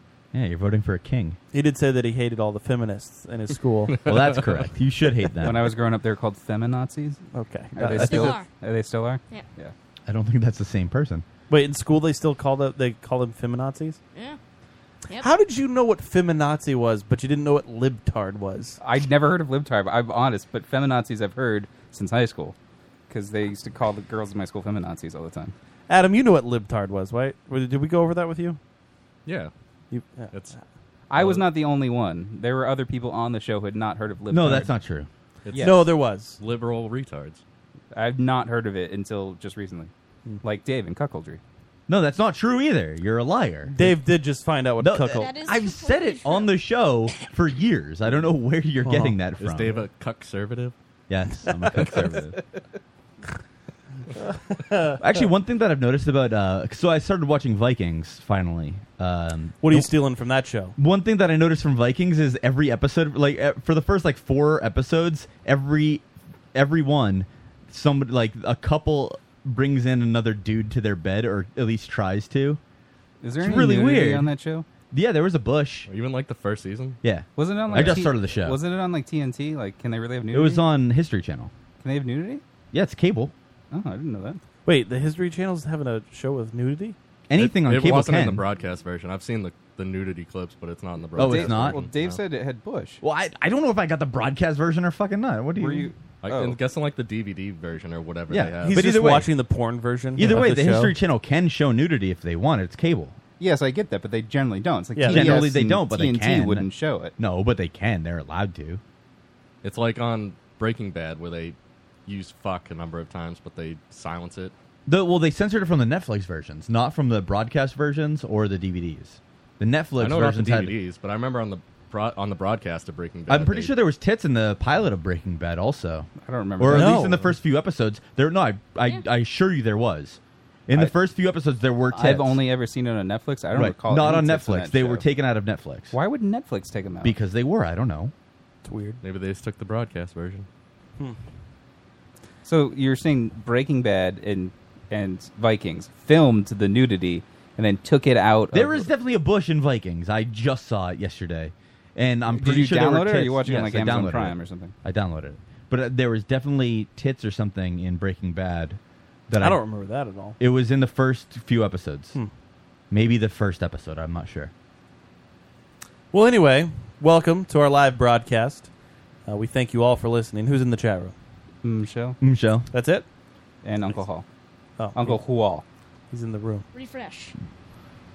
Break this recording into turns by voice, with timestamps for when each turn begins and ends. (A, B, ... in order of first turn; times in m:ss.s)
0:00.3-0:01.4 A
0:01.5-0:04.0 B
0:04.0-0:04.6 C
0:04.0-0:05.7 A
0:05.4-0:07.2 D
0:07.3-0:08.4 B
0:07.8-0:09.7 D
0:08.0-0:08.5 E
0:10.1-0:11.2 A
0:11.5-0:14.0 B
0:15.2-0:18.8 B
0:18.8-0:22.6 D
0:23.1-0:25.6 D
0:25.9-0:28.6 B
0:29.2-0:29.5 C
0:29.9-0:30.6 B
0:31.1-0:34.7 D
0:31.2-0:31.4 C
0:34.3-0:35.1 A
0:35.4-0:37.4 C
0:35.6-0:36.4 B
0:37.9-0:41.4 D
0:41.9-0:44.0 A
0:43.7-0:45.3 B
0:44.8-0:49.8 A
0:45.1-0:46.5 E
0:48.8-0:49.2 B
0:49.4-0:50.7 C
0:51.1-0:52.4 A
0:54.2-0:55.0 B
0:55.0-0:59.9 A
0:59.6-1:00.8 B
1:00.8-1:12.6 A
1:13.2-1:14.7 D
1:13.4-1:14.3 A
1:14.9-1:15.9 A
1:15.9-1:17.0 C
1:17.0-1:18.6 A
1:17.4-1:20.6 D
1:17.7-1:18.1 C
1:20.3-1:21.5 A
1:21.8-1:22.4 D
1:22.7-1:23.3 A
1:23.7-1:24.4 D
1:24.7-1:27.0 B
1:27.3-1:28.4 A
1:27.4-1:32.2 C
1:31.2-1:31.8 A
1:31.2-1:33.0 D
1:33.0-1:35.9 A
1:35.6-1:36.6 D
1:36.2-1:39.0 C
1:38.3-1:39.3 A
1:38.6-1:40.9 B
1:40.2-1:43.2 A
1:43.4-1:47.1 D
1:45.0-1:45.6 B
1:45.1-1:46.6 A
1:47.2-1:48.8 A
1:49.6-1:54.5 C
1:54.9-2:00.8 A
2:00.0-2:03.8 C
2:03.3-2:06.1 A
2:06.2-2:07.2 D
2:06.6-2:12.4 A
2:06.7-2:07.3 B
2:11.9-2:15.1 D
2:13.5-2:15.9 A
2:15.9-2:17.2 D
2:17.0-2:18.1 A
2:18.6-2:19.0 B
2:19.0-2:20.5 C
2:22.4-2:28.9 D
2:28.5-2:39.6 A
2:32.3-2:34.8 D
2:39.4-2:40.4 B
2:40.4-2:42.2 A
2:42.9-2:44.5 A
2:46.1-2:48.7 B
2:49.3-2:51.2 B
2:51.6-2:52.2 D
2:52.2-2:52.7 A
2:52.7-2:53.0 B
2:53.6-2:54.3 D
2:54.8-2:55.2 B
2:54.9-2:55.6 D
2:56.1-2:56.7 B
2:56.7-2:57.3 E